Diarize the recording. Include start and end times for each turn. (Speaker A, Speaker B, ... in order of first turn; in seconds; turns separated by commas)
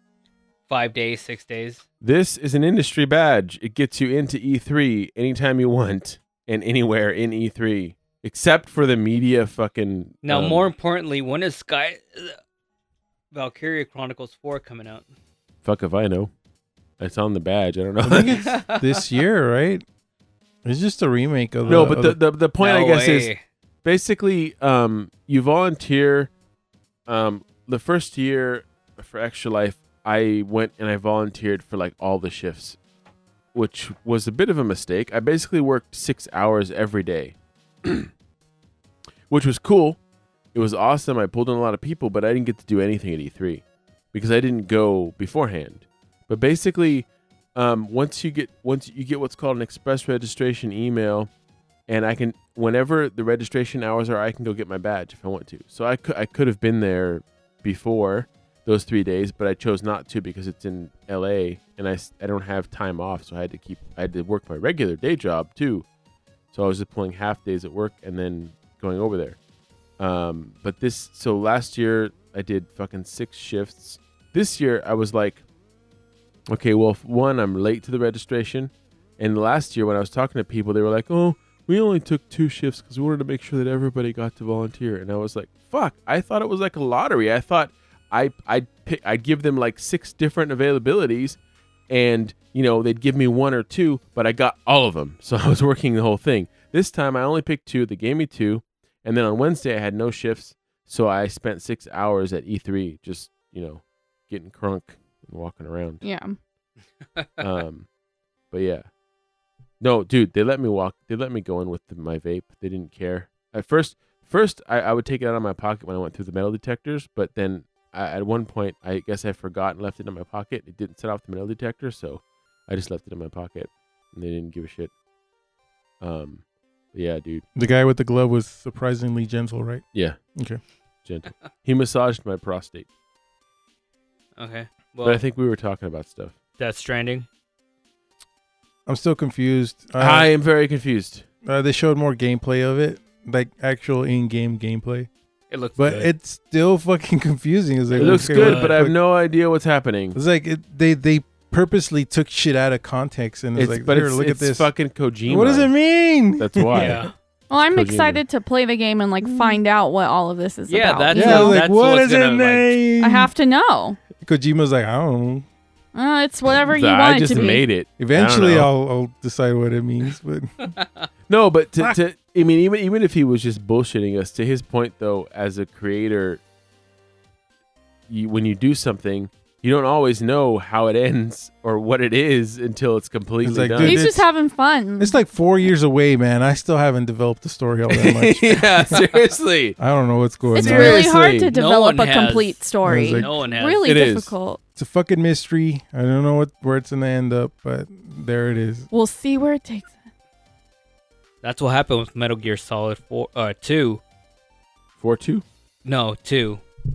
Speaker A: 0.7-1.8, Speaker B: 2.0-10.7, Speaker A: 10.2-12.4, Speaker A: 13.3-15.1, Speaker B: 15.6-16.3, Speaker B: 17.0-18.4, Speaker C: 18.0-19.8, Speaker A: 18.4-19.0, Speaker C: 20.6-22.2, Speaker B: 21.7-23.3, Speaker A: 22.6-23.4, Speaker B: 23.8-26.3, Speaker B: 27.1-32.8, Speaker B: 33.5-38.1, Speaker B: 39.3-40.0, Speaker B: 40.5-51.3, Speaker B: 51.9-65.8, Speaker B: 66.5-69.4, Speaker B: 70.0-75.4, Speaker B: 76.5-106.0, Speaker D: 106.0-106.3, Speaker B: 107.4-107.9, Speaker B: 108.5-108.9, Speaker B: 109.8-124.9, Speaker B: 126.0-127.5, Speaker C: 127.5-129.8, Speaker B: 129.9-130.2, Speaker C: 130.3-130.6, Speaker B: 131.1-132.9, Speaker A: 134.4-135.2, Speaker B: 135.0-136.4, Speaker A: 136.6-137.3, Speaker C: 138.9-140.3, Speaker B: 140.0-141.3, Speaker C: 141.4-145.1, Speaker A: 145.5-146.1, Speaker C: 145.8-149.0, Speaker A: 147.9-148.8, Speaker B: 148.0-150.2, Speaker C: 150.1-154.7, Speaker B: 153.6-155.7, Speaker C: 155.3-157.1, Speaker B: 156.4-158.2, Speaker A: 156.7-157.1, Speaker D: 157.5-161.6, Speaker C: 159.3-159.6, Speaker A: 160.7-162.8, Speaker C: 161.1-163.3, Speaker D: 163.0-164.0, Speaker C: 164.2-165.5, Speaker D: 165.9-167.7, Speaker B: 166.5-168.7, Speaker C: 168.0-170.7, Speaker A: 170.7-171.1, Speaker B: 171.3-176.4, Speaker B: 178.1-184.0, Speaker C: 183.4-184.3, Speaker D: 183.8-185.2, Speaker C: 185.0-189.0, Speaker B: 187.9-189.8, Speaker C: 189.8-191.1, Speaker D: 190.5-194.6, Speaker B: 190.6-191.5, Speaker A: 191.5-193.9, Speaker C: 192.8-193.3, Speaker B: 193.8-194.3, Speaker C: 194.8-198.9, Speaker D: 198.9-200.0, Speaker A: 201.4-204.0, Speaker B: 205.0-205.4, Speaker A: 205.8-206.6